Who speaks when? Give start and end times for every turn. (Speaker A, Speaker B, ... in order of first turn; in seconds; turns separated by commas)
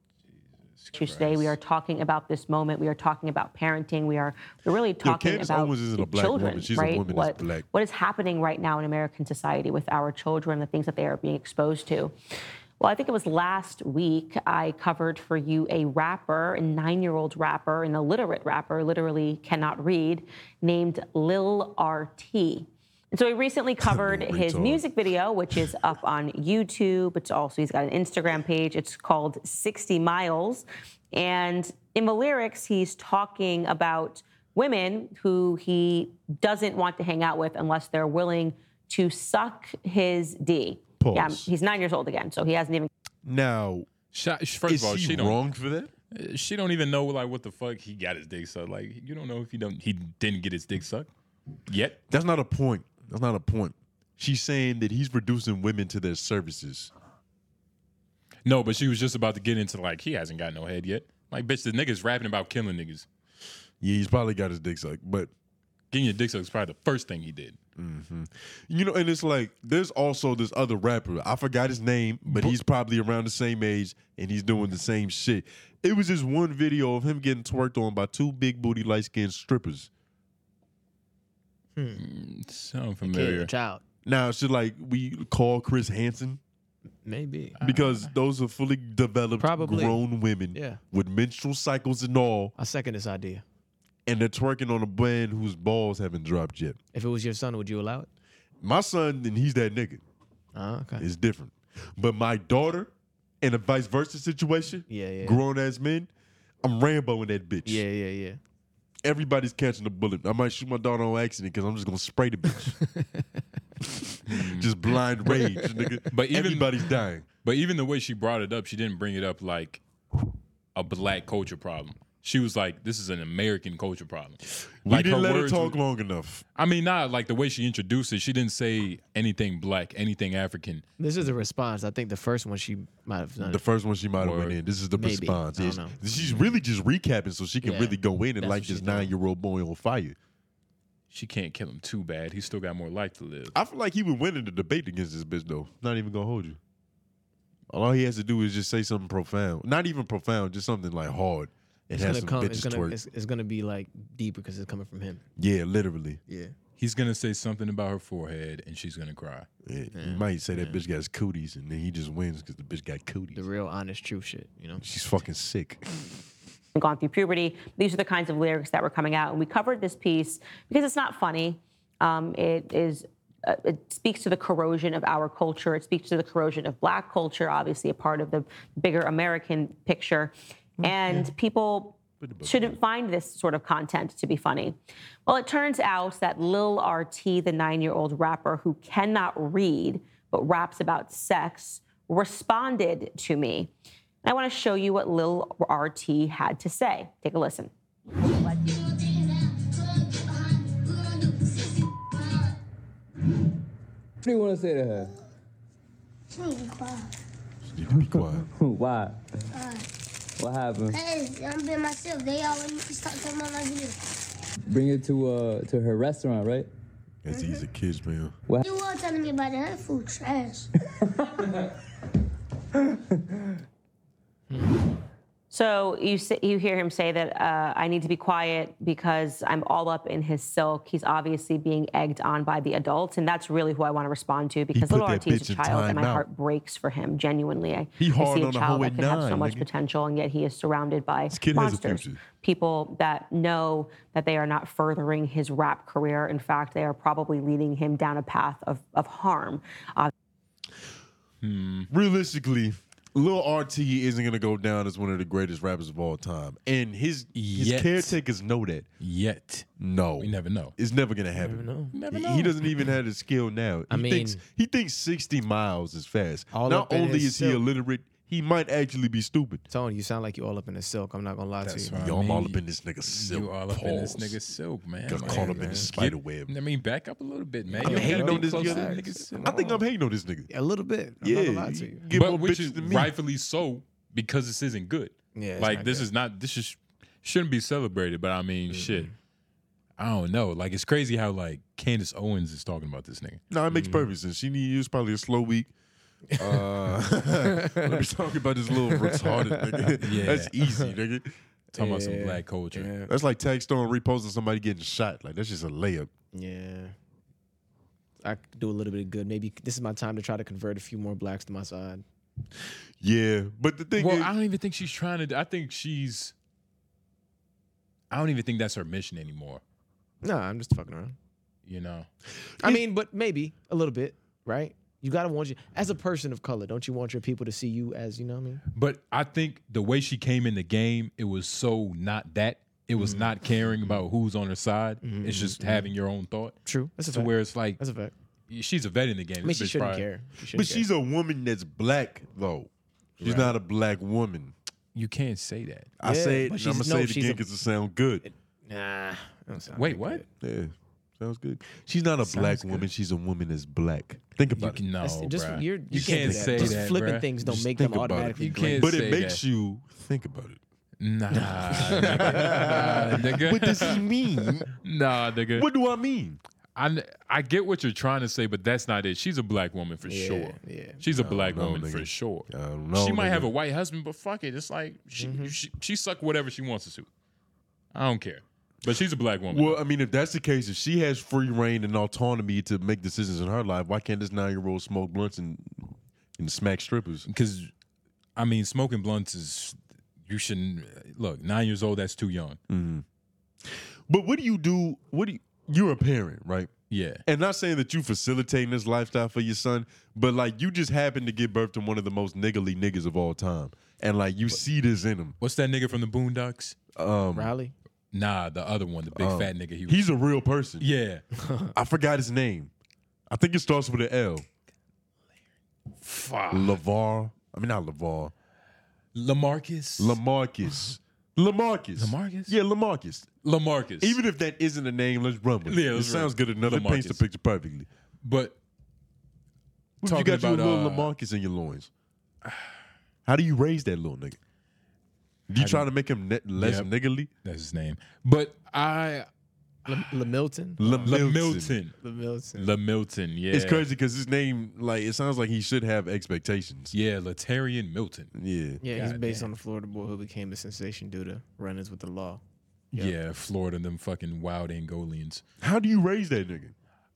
Speaker A: 0.8-1.6, Speaker B: 0.9-12.1, Speaker C: 5.0-7.7, Speaker B: 12.8-42.9, Speaker C: 23.8-24.9, Speaker C: 41.0-41.5, Speaker C: 43.2-43.9, Speaker A: 44.1-45.4, Speaker C: 44.7-45.9, Speaker A: 46.1-51.1, Speaker A: 51.7-52.0, Speaker C: 52.1-56.9, Speaker A: 58.5-63.1, Speaker C: 63.8-65.3, Speaker A: 65.9-67.6, Speaker C: 67.8-79.9, Speaker A: 72.3-72.5, Speaker D: 81.8-82.0, Speaker A: 82.0-83.5, Speaker D: 83.0-83.8, Speaker C: 84.0-86.4, Speaker D: 87.0-87.6, Speaker A: 87.6-88.1, Speaker C: 87.6-92.5, Speaker D: 89.4-90.0, Speaker D: 90.5-90.8, Speaker D: 92.6-93.4, Speaker C: 94.0-96.8, Speaker D: 96.9-98.1, Speaker C: 98.6-100.0, Speaker D: 100.5-101.1, Speaker C: 101.0-102.9, Speaker C: 103.4-106.1, Speaker D: 104.9-105.4, Speaker C: 106.6-107.8, Speaker D: 107.7-108.4, Speaker C: 109.0-112.8, Speaker D: 112.9-113.2, Speaker C: 113.8-117.2, Speaker A: 114.2-114.7, Speaker D: 115.3-115.9, Speaker A: 116.1-116.7, Speaker A: 117.4-119.8, Speaker A: 120.7-125.8, Speaker C: 124.8-126.4, Speaker A: 126.5-130.8, Speaker D: 131.0-133.6, Speaker C: 133.4-140.2, Speaker A: 134.2-134.6, Speaker D: 134.9-136.0, Speaker D: 137.6-139.1, Speaker A: 141.1-143.5, Speaker C: 143.5-146.6, Speaker C: 147.7-153.0, Speaker D: 151.9-155.2, Speaker C: 155.4-156.2, Speaker D: 156.3-156.5, Speaker A: 156.8-159.5, Speaker C: 159.6-163.4, Speaker D: 159.9-160.8, Speaker D: 163.3-164.8, Speaker C: 164.8-166.1, Speaker B: 166.7-193.7, Speaker C: 182.2-182.8, Speaker B: 194.2-197.7, Speaker E: 198.2-202.6, Speaker F: 204.2-205.1, Speaker E: 206.3-207.1, Speaker C: 207.6-208.5, Speaker F: 207.9-209.2, Speaker E: 209.5-209.8, Speaker F: 210.4-211.0, Speaker E: 210.9-213.9, Speaker F: 214.7-216.7, Speaker C: 217.2-218.3, Speaker E: 218.6-220.7, Speaker D: 224.5-224.8, Speaker B: 225.5-250.1, Speaker C: 234.7-236.2, Speaker C: 238.0-239.7, Speaker C: 241.3-242.2, Speaker A: 251.4-251.9, Speaker C: 251.9-258.9, Speaker A: 257.3-258.2, Speaker A: 259.0-259.7, Speaker C: 259.8-269.6, Speaker A: 260.2-260.7, Speaker D: 261.4-261.9, Speaker A: 261.9-262.7, Speaker D: 263.9-264.4, Speaker D: 266.5-267.6, Speaker D: 269.7-271.9, Speaker A: 271.6-279.8, Speaker C: 271.9-274.4, Speaker C: 275.1-276.5, Speaker D: 275.2-275.9, Speaker D: 277.8-279.6, Speaker C: 277.8-280.5, Speaker D: 280.5-282.0, Speaker C: 281.2-283.1, Speaker A: 282.1-289.1, Speaker D: 285.3-286.1, Speaker D: 288.7-289.1, Speaker A: 290.0-293.4, Speaker C: 293.5-295.7, Speaker D: 293.7-294.1, Speaker D: 296.3-296.7, Speaker C: 296.4-301.4, Speaker D: 297.4-298.0, Speaker D: 298.7-300.0, Speaker A: 300.0-300.5, Speaker D: 300.6-300.9, Speaker D: 301.7-303.1, Speaker A: 301.8-302.9, Speaker C: 303.1-306.1, Speaker D: 306.3-306.9, Speaker D: 308.2-312.0, Speaker C: 313.0-314.3, Speaker A: 313.9-316.3, Speaker A: 318.1-319.6, Speaker D: 320.2-321.1, Speaker A: 321.6-322.1, Speaker D: 322.6-328.6, Speaker A: 328.7-336.6, Speaker D: 332.9-333.3, Speaker D: 335.0-335.9, Speaker D: 336.6-338.1, Speaker A: 337.1-337.8, Speaker A: 338.5-340.1, Speaker D: 339.4-340.9, Speaker C: 340.5-344.5, Speaker A: 343.2-343.5, Speaker A: 344.9-345.9, Speaker C: 346.0-348.2, Speaker D: 346.0-347.4, Speaker D: 348.2-350.3, Speaker A: 349.8-350.2, Speaker C: 350.4-354.8, Speaker D: 352.2-352.8, Speaker A: 354.6-357.2, Speaker D: 355.0-358.9, Speaker C: 355.9-356.9, Speaker C: 357.4-360.6, Speaker A: 358.4-359.4, Speaker A: 361.0-364.0, Speaker D: 361.4-363.2, Speaker C: 361.7-364.7, Speaker A: 364.8-365.7, Speaker C: 365.5-366.4, Speaker A: 366.8-377.1, Speaker D: 370.1-371.0, Speaker C: 371.1-373.5, Speaker D: 375.2-375.5, Speaker A: 377.9-379.8, Speaker C: 379.5-387.3, Speaker A: 387.3-387.7, Speaker A: 388.4-392.6, Speaker C: 392.7-393.0, Speaker C: 393.6-396.7, Speaker A: 396.9-397.2, Speaker C: 397.2-405.4, Speaker A: 405.4-406.8, Speaker C: 406.9-407.5, Speaker D: 407.3-407.7, Speaker A: 408.1-410.1, Speaker C: 409.1-410.9, Speaker A: 410.8-411.2, Speaker D: 411.3-411.7, Speaker C: 411.7-412.7, Speaker C: 413.3-414.4, Speaker A: 416.0-416.8, Speaker C: 416.5-418.3, Speaker A: 419.1-420.2, Speaker C: 420.0-423.3, Speaker A: 422.0-422.5, Speaker A: 423.4-424.2, Speaker C: 424.0-427.9, Speaker A: 425.6-427.2, Speaker A: 428.2-428.6, Speaker C: 430.0-431.9, Speaker A: 430.0-431.1, Speaker A: 432.4-432.7, Speaker C: 433.2-434.4, Speaker C: 435.5-437.3, Speaker A: 435.6-435.9, Speaker A: 436.6-436.9, Speaker A: 437.4-439.3, Speaker D: 439.9-441.1, Speaker C: 440.8-441.8, Speaker A: 441.0-441.9, Speaker D: 442.0-442.7, Speaker A: 442.5-443.8, Speaker C: 443.5-446.9, Speaker A: 446.9-448.3, Speaker C: 448.3-448.8, Speaker D: 448.8-452.4, Speaker A: 448.9-449.5, Speaker A: 452.9-455.4, Speaker C: 455.6-456.7